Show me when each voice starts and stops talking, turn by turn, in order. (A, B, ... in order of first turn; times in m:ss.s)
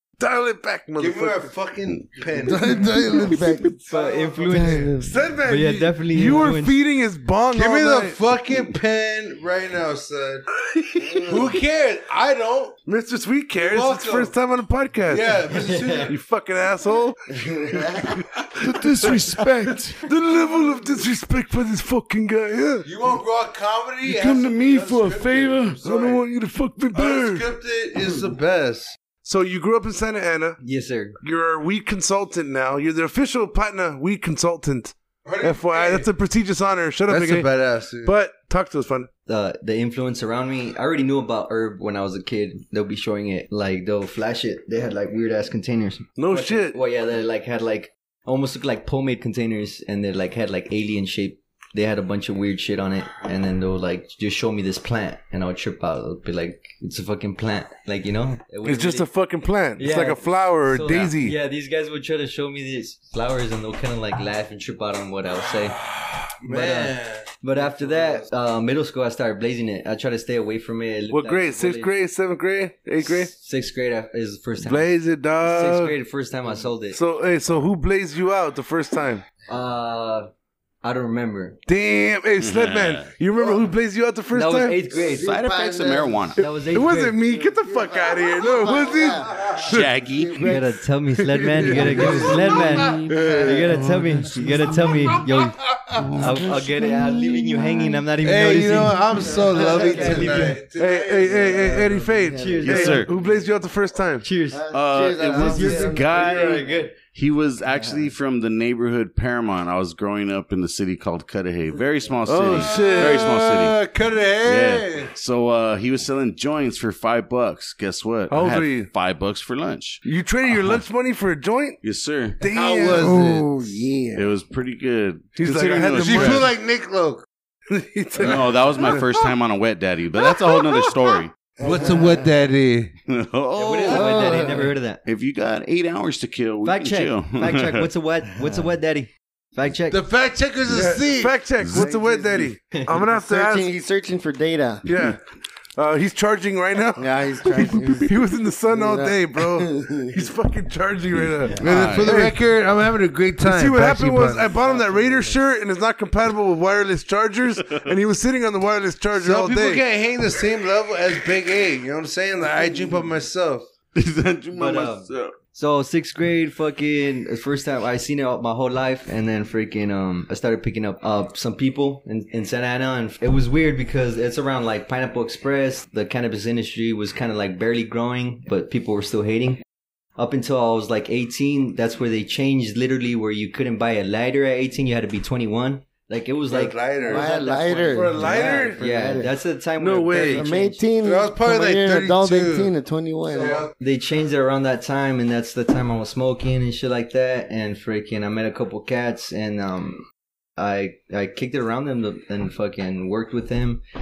0:00.2-0:01.5 A
0:01.0-0:04.8 B
0:02.4-0:03.8 C
0:03.9-0:06.8 D
0:04.4-0:05.2 C
0:05.0-0:08.2 A
0:07.5-0:10.5 B
0:10.7-0:11.2 A
0:11.1-0:12.8 B
0:12.9-0:15.4 A
0:13.5-0:14.3 B
0:15.1-0:16.1 B
0:15.5-0:16.1 D
0:16.1-0:17.2 A
0:17.3-0:18.1 C
0:18.6-0:20.0 E
0:18.6-0:19.2 A
0:20.0-0:22.8 A
0:22.8-0:26.2 B
0:24.0-0:27.5 A
0:24.3-0:24.9 E
0:26.9-0:29.0 B
0:29.2-0:30.6 A
0:30.6-0:31.2 D
0:31.2-0:37.5 A
0:35.2-0:36.1 B
0:37.1-0:38.1 B
0:38.0-0:39.1 A
0:39.3-0:59.1 D
0:46.2-0:46.8 A
0:58.6-1:01.3 A
0:59.8-1:05.8 D
1:06.4-1:08.2 B
1:06.4-1:11.9 D
1:11.1-1:13.3 A
1:13.0-1:14.9 D
1:14.6-1:15.9 A
1:15.4-1:17.0 D
1:16.9-1:19.2 A
1:19.5-1:20.3 D
1:20.8-1:21.6 D
1:21.7-1:24.8 A
1:22.4-1:23.1 E
1:24.3-1:25.3 D
1:25.1-1:26.4 E
1:25.1-1:26.3 C
1:26.4-1:27.2 D
1:26.4-1:29.9 A
1:27.3-1:29.5 C
1:29.6-1:30.6 E
1:30.1-1:30.6 C
1:30.4-1:35.6 D
1:31.3-1:33.4 A
1:31.6-1:33.4 C
1:33.1-1:33.6 B
1:35.9-1:36.5 E
1:36.2-1:40.6 D
1:38.2-1:42.0 B
1:39.2-1:42.8 C
1:40.8-1:44.2 A
1:42.4-1:43.1 D
1:42.6-1:43.1 E
1:44.2-1:44.6 D
1:44.5-1:46.6 C
1:44.7-1:53.8 E
1:45.2-1:47.0 D
1:47.7-1:48.1 C
1:52.2-1:53.4 A
1:52.5-1:55.1 B
1:54.4-2:00.8 E
1:58.3-1:58.9 A
2:00.0-2:01.8 A
2:01.8-2:02.4 E
2:02.4-2:03.1 A
2:02.4-2:03.4 B
2:03.0-2:04.3 C
2:04.1-2:06.5 E
2:05.4-2:06.5 A
2:05.9-2:07.2 B
2:07.7-2:09.1 A
2:08.2-2:11.3 E
2:11.6-2:12.3 C
2:11.6-2:12.9 B
2:13.1-2:14.4 E
2:13.5-2:15.0 D
2:13.9-2:14.7 C
2:15.0-2:17.9 E
2:16.6-2:20.0 D
2:19.9-2:21.4 B
2:20.7-2:23.7 A
2:21.6-2:22.0 E
2:21.7-2:22.5 C
2:23.1-2:24.8 C
2:24.8-2:25.2 A
2:25.8-2:32.3 A
2:27.0-2:30.3 C
2:31.6-2:32.3 E
2:31.6-2:34.5 B
2:33.4-2:39.8 A
2:34.6-2:35.3 C
2:37.6-2:37.9 E
2:39.2-2:43.7 B
2:43.9-2:45.3 E
2:44.5-2:59.6 D
3:00.2-3:10.8 D
3:06.5-3:08.7 B
3:07.0-3:09.3 C
3:07.9-3:08.8 A
3:09.8-3:10.5 A
3:10.2-3:13.6 C
3:11.0-3:12.7 B
3:13.3-3:13.7 B
3:13.8-3:20.0 D
3:20.6-3:23.8 D